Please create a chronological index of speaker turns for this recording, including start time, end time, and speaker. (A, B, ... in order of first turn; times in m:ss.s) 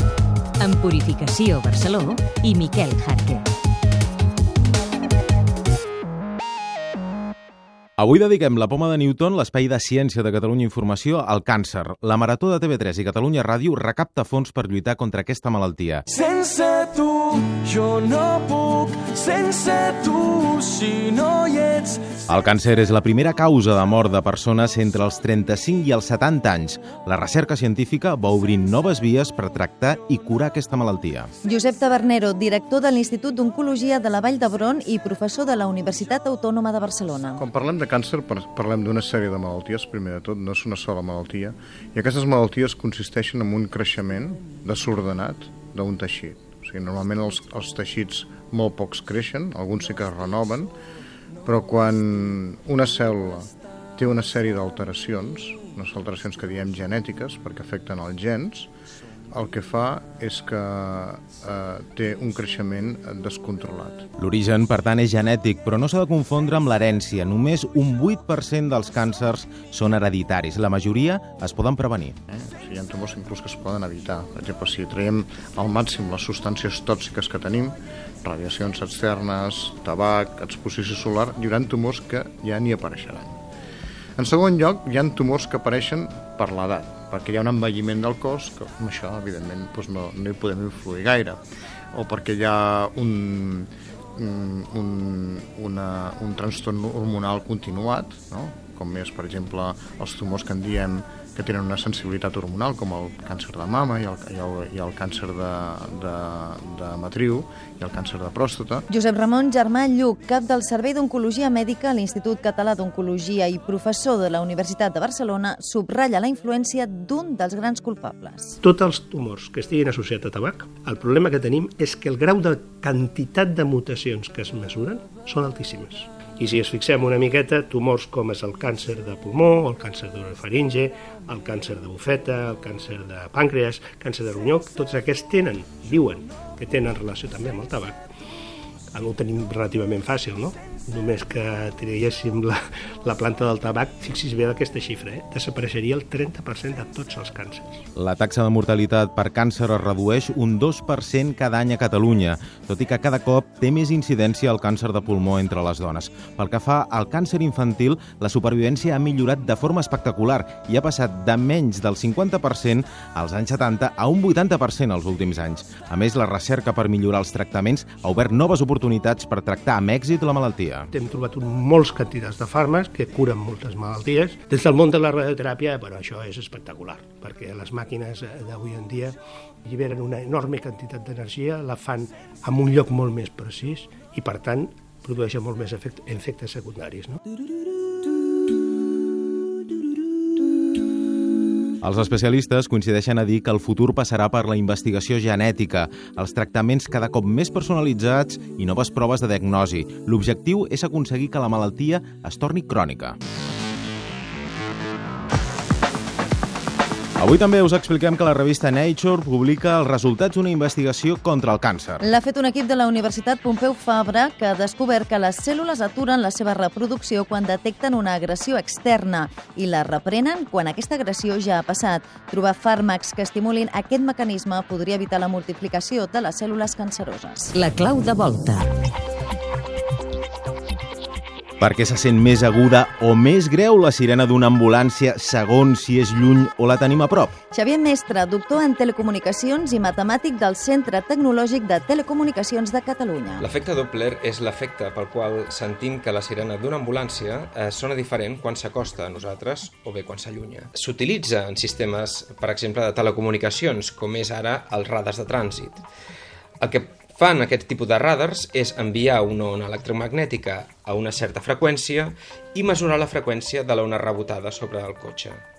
0:00.6-0:03.5 A
0:08.0-0:16.0 B
0:16.1-0:22.2 C
0:22.3-0:31.3 B
0:31.4-0:37.4 D
0:37.4-0:50.7 E
0:51.4-0:58.7 E
0:59.3-1:04.0 E
1:04.2-1:12.2 B
1:12.3-1:23.4 E
1:24.2-1:31.4 E
1:31.9-1:48.8 E
1:48.9-1:58.6 D
1:58.6-2:18.0 F
2:18.9-2:27.8 F
2:27.9-2:50.9 B
2:50.9-3:07.2 F
3:11.8-3:23.2 B
3:27.2-3:32.0 B
3:32.0-3:47.6 D
3:47.5-3:48.8 A
3:51.6-3:57.3 B
3:57.5-4:03.4 D
4:03.4-4:15.8 G
4:16.6-4:25.4 G